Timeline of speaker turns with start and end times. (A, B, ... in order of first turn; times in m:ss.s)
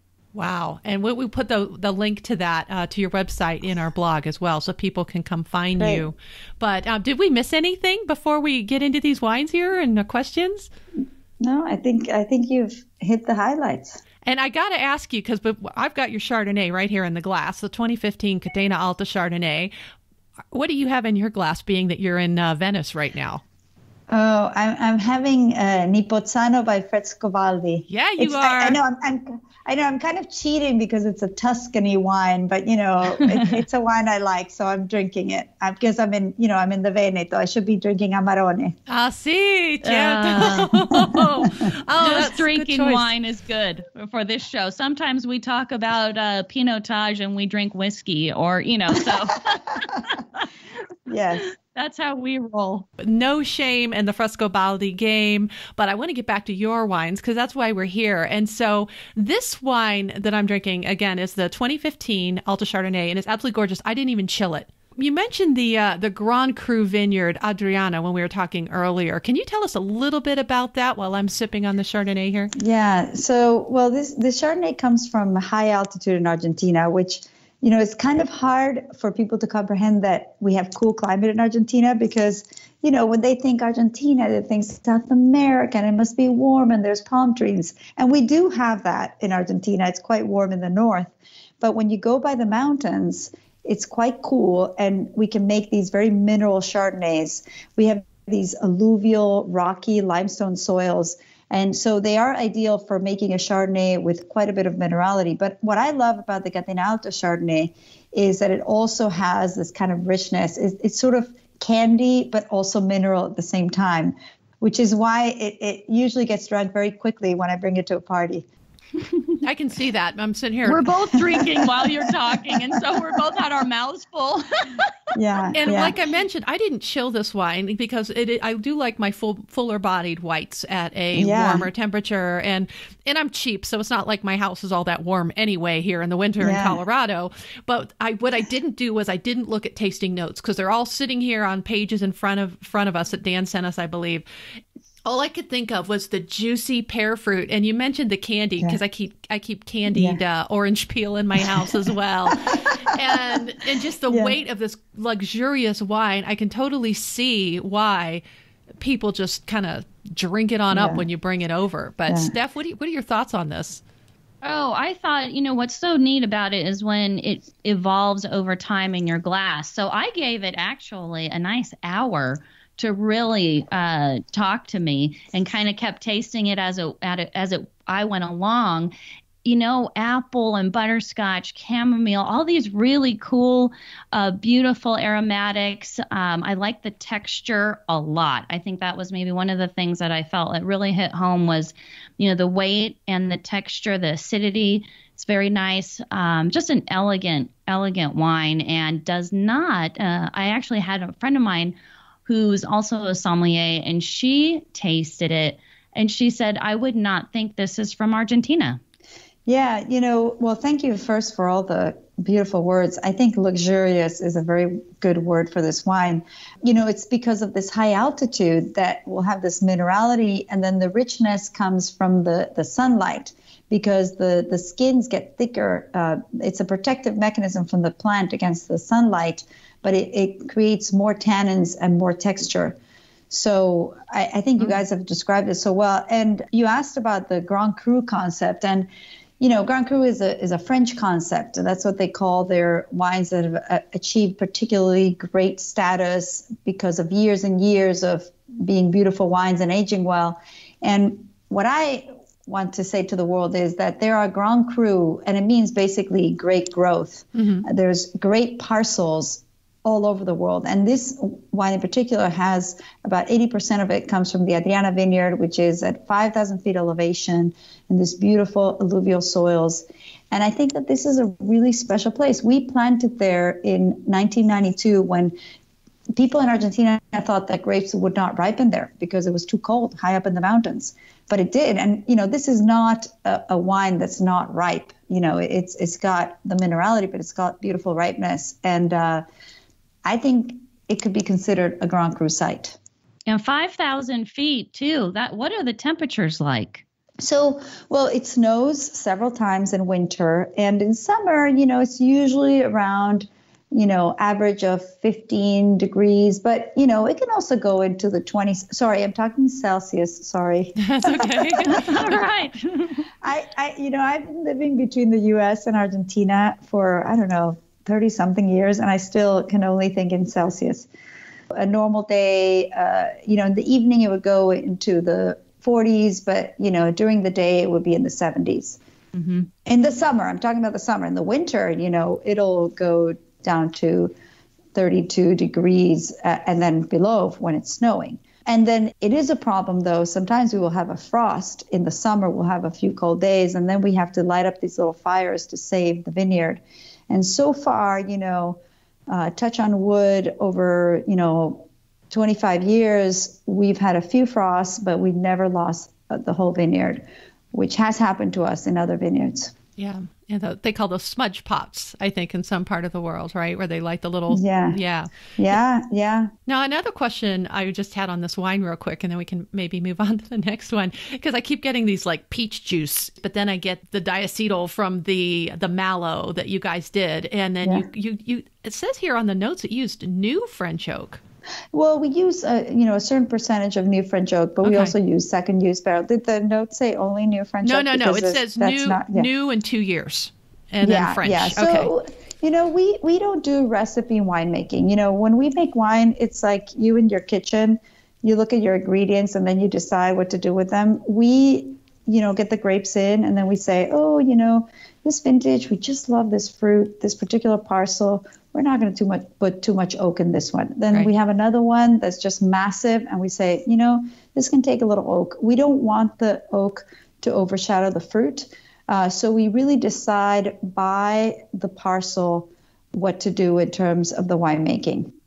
0:00.3-0:10.7 A
0:05.8-0:06.0 B
0:11.4-0:14.0 B
0:14.3-0:19.7 A
0:20.5-0:23.4 A
0:24.1-0:38.8 B
0:27.9-0:28.8 A
0:38.9-0:43.1 A
0:39.8-0:40.9 C
0:41.1-0:41.6 B
0:42.0-0:50.5 C
0:51.1-0:51.5 B
0:51.3-0:52.9 C
0:53.0-1:12.5 A
1:12.6-1:58.4 B
1:59.4-2:01.1 A
2:00.7-2:04.9 C
2:01.1-2:02.1 B
2:02.8-2:03.2 B
2:05.1-2:06.0 B
2:05.6-2:24.2 A
2:11.1-2:11.7 B
2:16.4-2:16.8 B
2:25.0-2:38.2 A
2:29.9-2:30.2 B
2:32.3-2:33.4 B
2:34.1-2:34.4 B
2:38.8-2:43.8 A
2:40.7-2:41.0 B
2:44.4-2:58.9 C
2:59.4-3:21.8 C
3:22.3-3:28.8 C
3:29.5-3:52.8 B
3:53.3-3:58.9 B
3:59.4-4:35.3 B
4:17.4-4:17.6 A
4:36.2-4:49.2 B
4:50.0-4:52.8 B
4:53.3-4:56.8 C
4:57.2-5:11.9 B
5:10.8-5:12.2 A
5:11.6-5:13.0 C
5:13.2-5:20.9 B
5:21.5-5:28.8 B
5:29.2-5:29.5 C
5:29.6-5:34.1 B
5:34.7-5:59.5 B
5:59.8-6:05.3 A
6:04.3-6:04.8 B
6:05.4-6:06.3 B
6:06.5-6:21.2 A
6:21.7-6:29.3 B
6:24.6-6:24.9 A
6:27.6-6:31.9 A
6:30.8-7:05.1 B